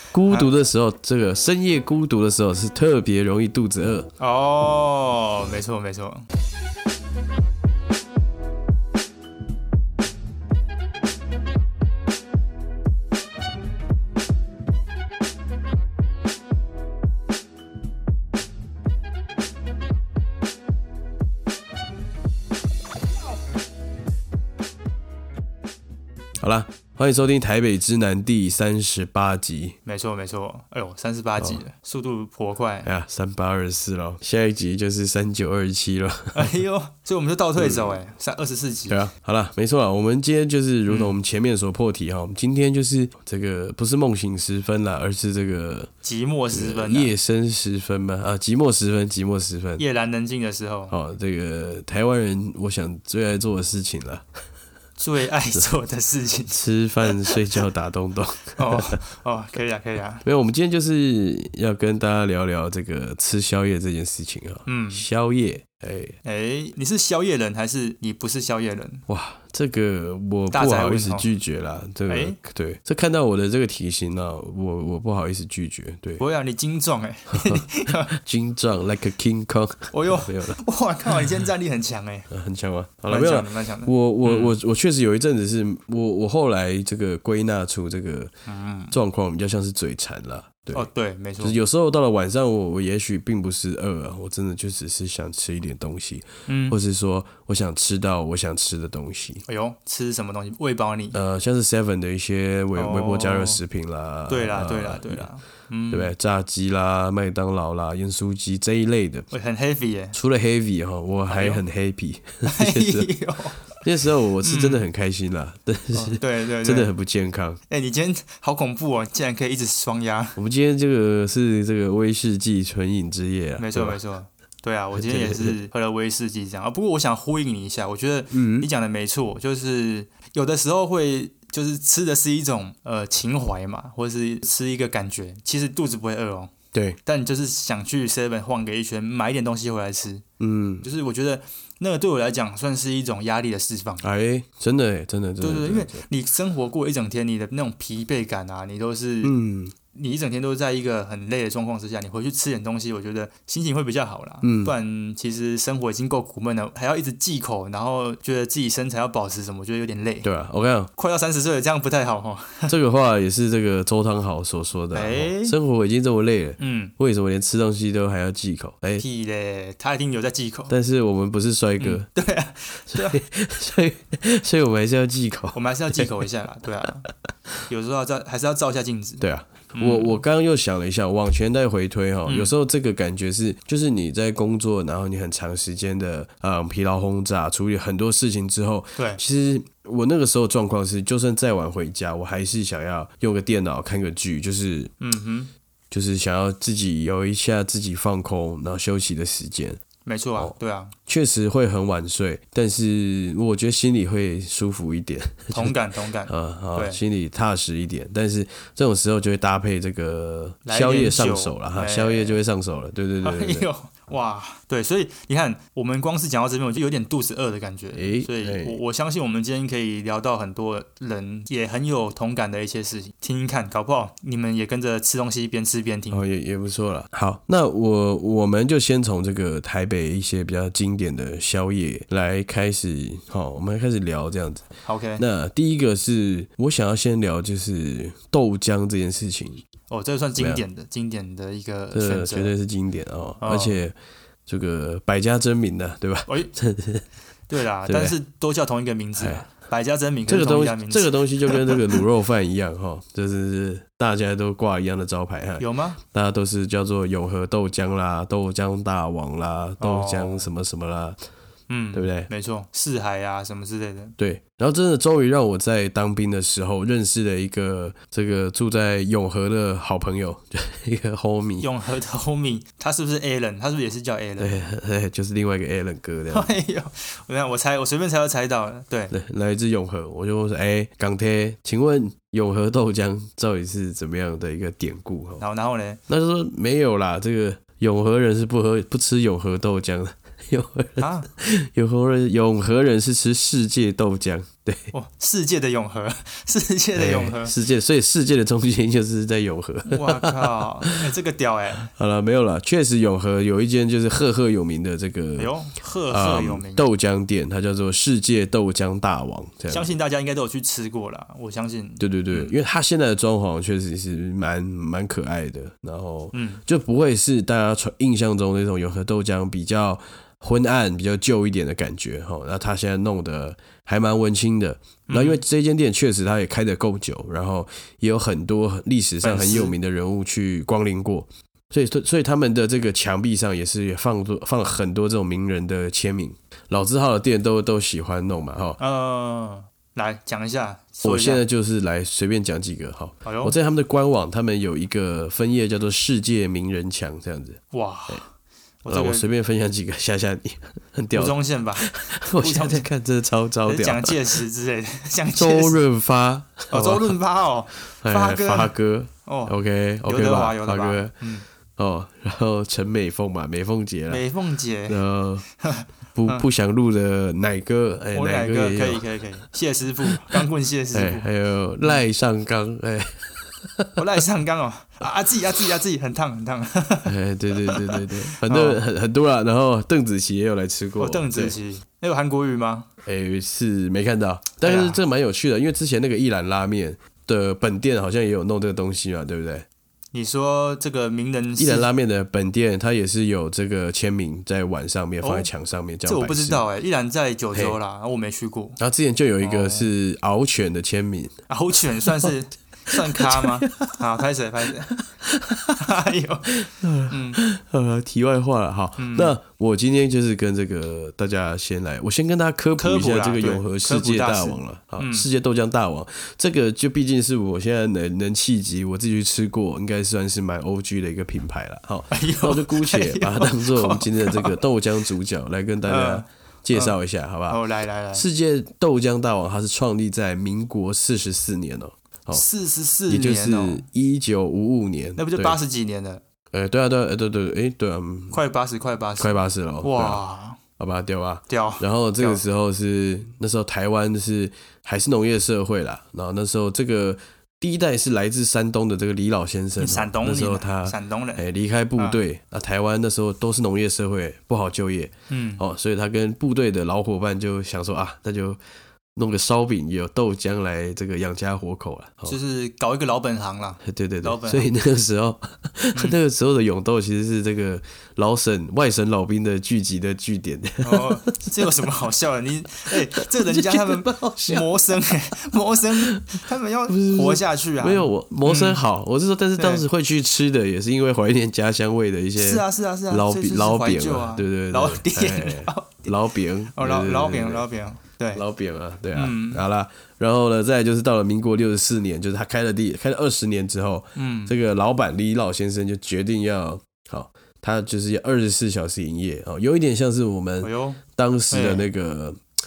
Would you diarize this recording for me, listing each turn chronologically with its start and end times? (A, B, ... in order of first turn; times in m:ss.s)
0:00.1-0:04.1 A
0:04.2-0:06.3 B
0:26.4-0:29.8 A
0:29.8-0:32.9 B
0:32.8-0:36.5 A
0:36.3-0:39.0 B
0:37.6-0:38.0 A
0:38.9-0:45.9 A
0:40.9-0:41.2 B
0:46.0-0:47.1 B
0:46.5-0:49.8 A
0:49.8-0:50.9 B
0:50.9-0:54.2 A
0:55.0-0:57.4 B
0:56.5-0:59.0 A
0:58.6-1:00.2 B
1:00.2-1:06.2 A
1:04.7-1:05.0 B
1:06.2-1:09.0 B
1:09.1-1:16.2 A
1:10.5-1:11.3 B
1:12.1-1:12.4 B
1:16.2-1:18.1 B
1:17.3-1:20.6 A
1:19.9-1:22.3 B
1:22.3-1:28.3 A
1:23.1-1:24.5 B
1:28.5-1:29.0 B
1:28.9-1:30.9 A
1:30.7-1:31.6 B
1:31.4-1:39.4 A
1:36.5-1:36.8 B
1:39.5-1:41.2 B
1:41.1-1:45.2 A
1:42.7-1:43.6 B
1:44.3-1:46.1 B
1:45.9-1:49.3 A
1:49.3-1:50.2 B
1:50.1-1:53.1 A
1:51.3-1:51.6 B
1:52.4-1:53.7 B
1:53.8-1:57.6 A
1:54.4-1:54.8 B
1:55.9-1:56.9 B
1:57.7-2:00.4 B
2:00.4-2:04.0 A
2:03.6-2:16.5 B
2:04.9-2:05.6 A
2:08.3-2:08.7 A
2:17.0-2:20.2 B
2:20.4-2:20.9 A
2:20.8-2:24.0 B
2:24.0-2:26.0 A
2:25.4-2:29.3 B
2:29.2-2:29.7 A
2:29.9-2:40.3 B
2:34.4-2:34.7 A
2:40.2-2:40.9 A
2:41.0-2:42.7 B
2:42.7-2:49.0 A
2:44.9-2:45.6 B
2:46.6-2:46.9 B
2:49.0-2:50.7 B
2:50.7-2:52.1 A
2:51.8-2:53.2 B
2:52.9-2:56.1 A
2:55.5-2:57.0 B
2:57.7-2:59.2 B
2:59.2-3:14.9 A
2:59.7-3:00.2 B
3:02.2-3:02.5 B
3:15.0-3:15.5 B
3:15.9-3:19.8 A
3:20.0-3:20.9 B
3:21.0-3:25.7 A
3:25.5-3:27.0 B
3:26.3-3:33.6 A
3:30.6-3:32.4 B
3:33.2-3:46.2 B
3:37.9-3:38.8 A
3:46.1-3:54.7 A
3:54.8-3:55.2 B
3:55.2-3:59.6 A
3:59.9-4:02.5 B
4:01.9-4:03.9 A
4:03.4-4:03.8 B
4:04.4-4:07.0 A
4:06.3-4:06.5 B
4:07.5-4:11.8 B
4:07.9-4:08.2 A
4:09.2-4:09.4 A
4:10.3-4:21.2 A
4:15.6-4:16.0 B
4:19.8-4:20.5 B
4:21.7-4:24.1 B
4:21.9-4:22.3 A
4:24.2-4:31.7 A
4:31.6-4:34.6 B
4:34.4-4:36.5 A
4:36.3-4:39.1 B
4:39.1-4:45.4 A
4:45.4-4:46.0 B
4:46.1-4:54.9 A
4:51.0-4:51.3 B
4:54.9-4:57.5 B
4:57.0-5:01.0 A
4:59.8-5:01.9 B
5:01.8-5:05.5 A
5:05.4-5:06.9 B
5:06.1-5:09.9 A
5:09.7-5:12.5 B
5:12.0-5:38.8 A
5:16.3-5:16.6 B
5:25.1-5:25.4 B
5:29.2-5:29.8 B
5:38.8-5:41.4 B
5:41.0-5:48.2 A
5:43.2-5:43.5 B
5:47.7-5:48.3 B
5:48.8-5:49.3 B
5:48.9-5:54.4 A
5:51.1-5:52.9 B
5:53.6-5:55.8 B
5:55.3-5:57.1 A
5:56.7-5:58.7 B
5:58.0-6:01.1 A
5:59.2-6:01.4 B
6:01.8-6:04.2 A
6:04.1-6:05.0 B
6:04.9-6:05.4 A
6:05.6-6:06.4 B
6:06.1-6:09.0 A
6:08.1-6:11.3 B
6:10.1-6:10.4 A
6:10.9-6:14.0 A
6:14.0-6:18.8 B
6:17.0-6:21.6 A
6:21.0-6:22.9 B
6:23.0-6:29.6 A
6:24.6-6:25.0 B
6:30.1-6:31.9 B
6:31.6-6:36.6 A
6:35.2-6:35.5 B
6:36.0-6:38.8 B
6:38.8-6:41.4 A
6:39.4-6:39.9 B
6:41.5-6:44.9 B
6:42.9-6:44.0 A
6:44.9-6:45.8 A
6:45.8-6:46.5 B
6:46.5-7:07.6 A
6:47.1-6:47.4 B
6:49.0-6:49.4 B
6:52.8-6:55.3 B
7:02.1-7:04.6 B
7:05.8-7:07.0 B
7:07.5-7:08.2 B
7:08.1-7:12.4 A
7:12.3-7:13.8 B
7:13.1-7:15.6 A
7:15.2-7:16.2 B
7:16.5-7:18.4 A
7:18.3-7:20.6 B
7:19.2-7:20.2 A
7:20.8-7:38.6 A
7:21.5-7:22.4 B
7:29.8-7:31.4 B
7:35.3-7:35.6 B
7:39.1-7:42.4 A
7:42.3-7:44.7 B
7:43.8-7:51.7 A
7:50.8-7:58.8 B
7:52.9-7:54.7 A
7:56.0-8:07.6 A
7:59.6-7:59.8 B
8:02.4-8:06.1 B
8:06.7-8:08.4 B
8:08.3-8:22.4 A
8:09.1-8:09.6 B
8:14.2-8:14.5 B
8:20.6-8:21.0 B
8:21.5-8:21.8 B